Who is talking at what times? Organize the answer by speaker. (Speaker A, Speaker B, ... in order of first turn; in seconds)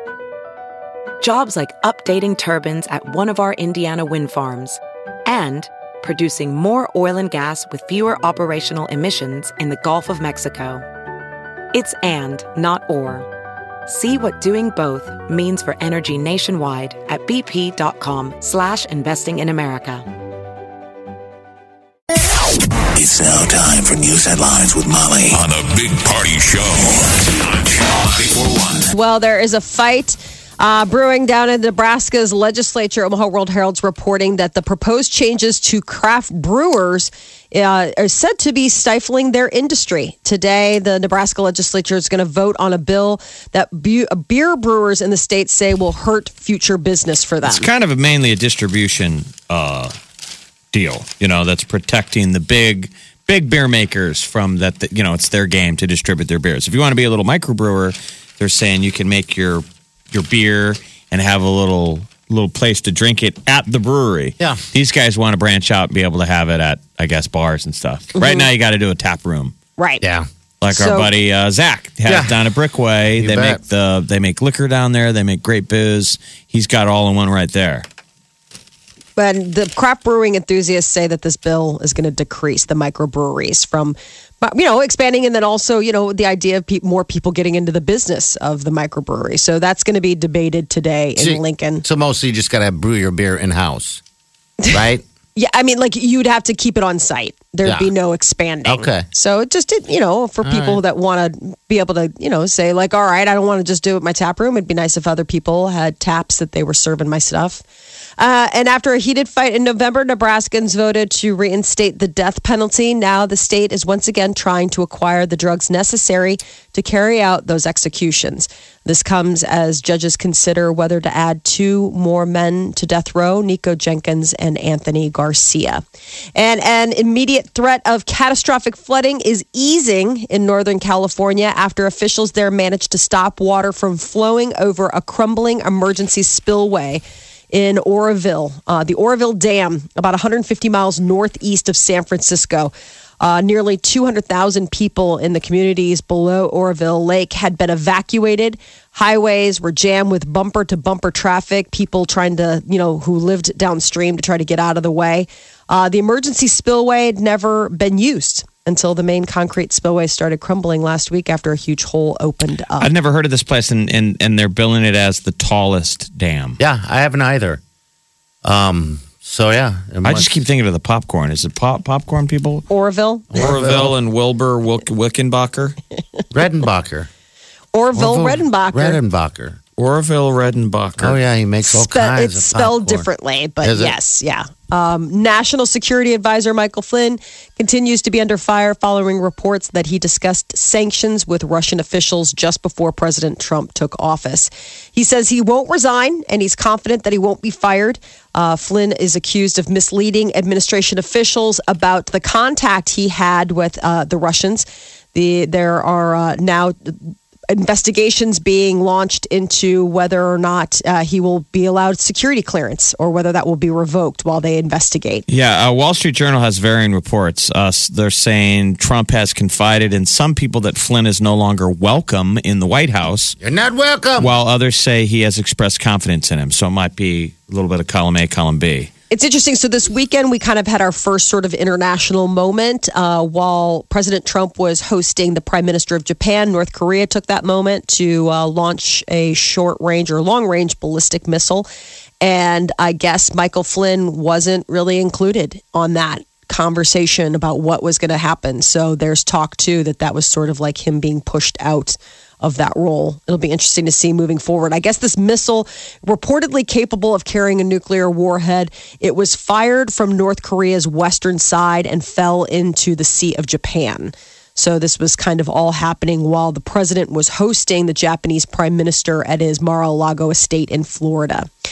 Speaker A: 1.2-10.8, 11.7-13.3, 13.9-20.1
Speaker B: 22.9-28.9
Speaker C: 28.9-47.7, 68.2-68.5, 69.8-70.0, 70.7-71.1, 79.2-91.8, 95.3-107.6, 108.2-125.8, 126.3-162.9, 172.7-173.4, 177.7-179.0, 181.6-215.3, 229.1-241.7, 242.2-271.5
Speaker D: 47.4-49.9, 50.7-69.5, 70.6-77.8, 162.8-166.6, 170.0-172.7, 173.4-175.8, 179.8-181.2, 215.3-223.4, 224.2-228.9
Speaker E: 70.0-70.3, 72.1-72.4, 73.2-73.6, 91.2-94.0, 94.7-95.0, 97.6-97.9, 98.7-99.1, 100.4-100.8, 166.6-167.6, 168.4-170.3, 173.3-173.9, 176.3-177.1, 177.9-179.6, 181.0-183.1, 183.6-184.0, 223.4-224.3